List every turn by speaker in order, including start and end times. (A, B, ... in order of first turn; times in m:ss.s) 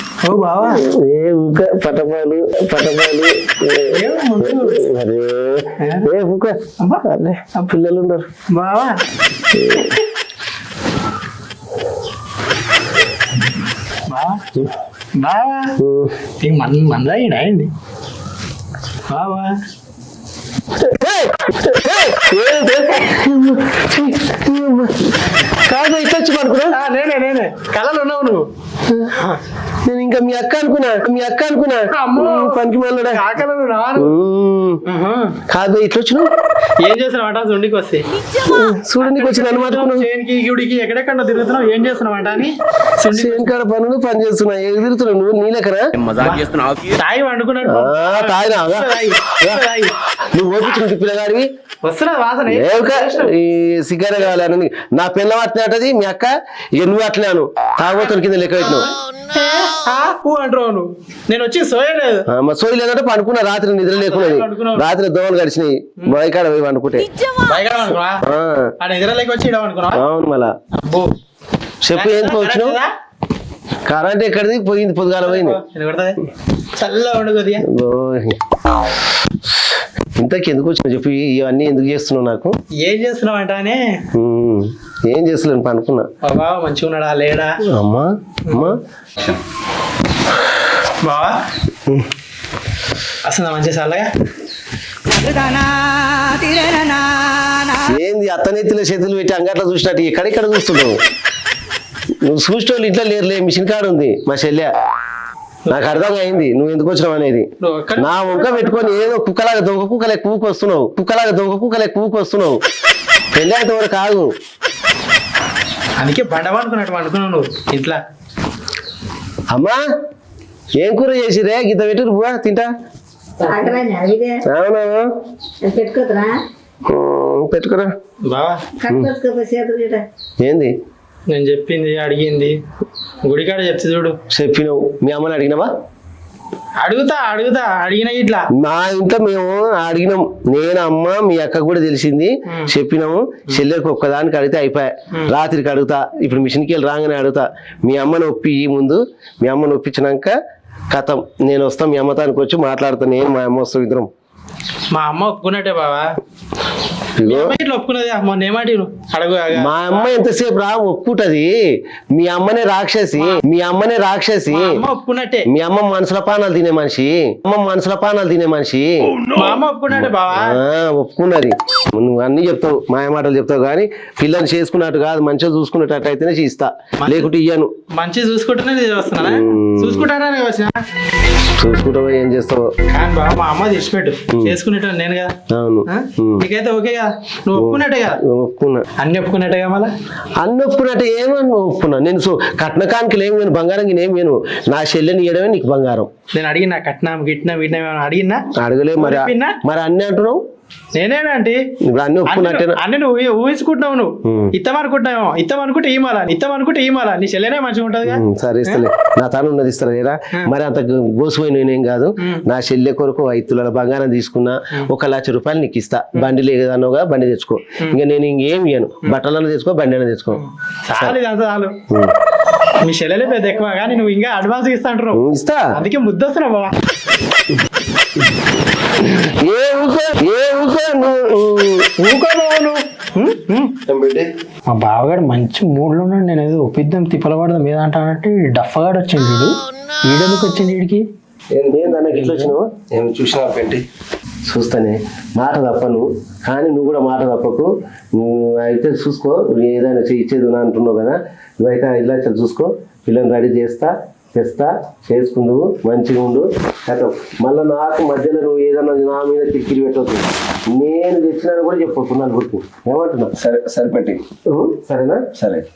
0:00.2-0:00.8 A
0:00.6-0:08.3 B
0:03.9-0:04.8 A
0:05.8-0:06.1 A
0:06.8-0:07.7 A
0:08.5-0:09.0 A
0:09.5-0:10.0 B
0:14.1-0:15.7 A
0:15.8-0:16.1 B
0:16.4-0:17.7 A
0:19.1-0:19.5 A
0:20.8-0:26.8 B
0:26.7-0:28.4 A
0:29.8-0:33.2 B
0:31.9-0:34.2 A
0:34.0-0:34.8 B
0:34.9-0:35.4 A
0:35.5-0:36.3 B
0:36.8-0:38.0 A
0:38.4-0:40.1 B
0:39.0-0:43.5 A
0:43.1-0:45.9 B
0:46.2-0:49.9 A
0:47.6-0:49.6 B
0:50.3-0:51.5 B
0:51.8-0:53.3 A
0:52.5-0:58.9 B
0:59.3-1:02.2 A
1:02.3-1:07.1 B
1:04.0-1:04.9 A
1:07.4-1:08.2 A
1:08.2-1:08.7 B
1:08.8-1:10.0 A
1:09.9-1:10.5 B
1:10.8-1:11.1 A
1:11.8-1:12.8 B
1:11.9-1:12.9 A
1:13.9-1:15.6 B
1:15.2-1:16.2 A
1:16.8-1:17.6 A
1:17.7-1:18.4 B
1:19.5-1:22.6 B
1:22.8-1:24.0 A
1:24.2-1:26.1 B
1:26.2-1:27.6 A
1:27.7-1:28.8 B
1:28.5-1:29.4 A
1:31.0-1:31.4 A
1:33.2-1:34.1 A
1:37.8-1:41.0 B
1:42.2-1:44.7 B
1:45.6-1:46.4 A
1:45.7-1:52.6 B
1:47.6-1:49.1 A
1:53.3-1:54.3 B
1:56.0-1:58.0 A
1:59.5-1:59.8 B
2:00.8-2:02.7 B
2:03.4-2:04.4 C
2:04.5-2:05.1 B
2:05.6-2:06.4 C
2:06.8-2:07.9 B
2:08.2-2:08.6 A
2:08.8-2:10.0 C
2:10.4-2:10.7 B
2:11.3-2:12.6 A
2:13.2-2:14.2 A
2:14.3-2:15.7 B
2:16.8-2:18.4 A
2:18.5-2:30.3 B
2:30.9-2:34.1 B
2:34.9-2:36.1 A
2:37.2-2:37.6 B
2:37.2-2:40.1 A
2:39.5-2:41.5 B
2:42.1-2:44.8 B
2:44.5-2:45.5 A
2:45.5-2:49.1 B
2:49.3-2:50.6 A
2:49.9-2:57.7 B
2:57.0-2:57.3 A
2:57.9-3:00.8 A
2:59.2-3:00.1 B
3:01.6-3:02.7 B
3:02.9-3:05.3 A
3:05.5-3:06.4 B
3:05.9-3:08.2 A
3:07.6-3:08.8 B
3:09.0-3:09.9 A
3:10.4-3:16.1 B
3:16.3-3:18.4 A
3:18.6-3:20.4 B
3:19.0-3:19.6 A
3:21.0-3:21.6 A
3:21.8-3:22.8 B
3:22.3-3:28.8 A
3:24.2-3:24.5 B
3:28.0-3:40.4 B
3:40.3-3:41.7 A
3:42.8-3:46.7 A
3:45.1-3:45.7 B
3:49.4-3:51.9 B
3:52.0-3:53.7 A
3:53.9-3:54.3 D
3:54.7-4:01.0 A
4:01.5-4:02.4 D
4:01.7-4:02.7 B
4:02.2-4:02.5 A
4:02.9-4:03.8 D
4:04.5-4:23.3 B
4:23.4-4:24.2 D
4:24.5-4:25.2 B
4:25.4-4:25.6 D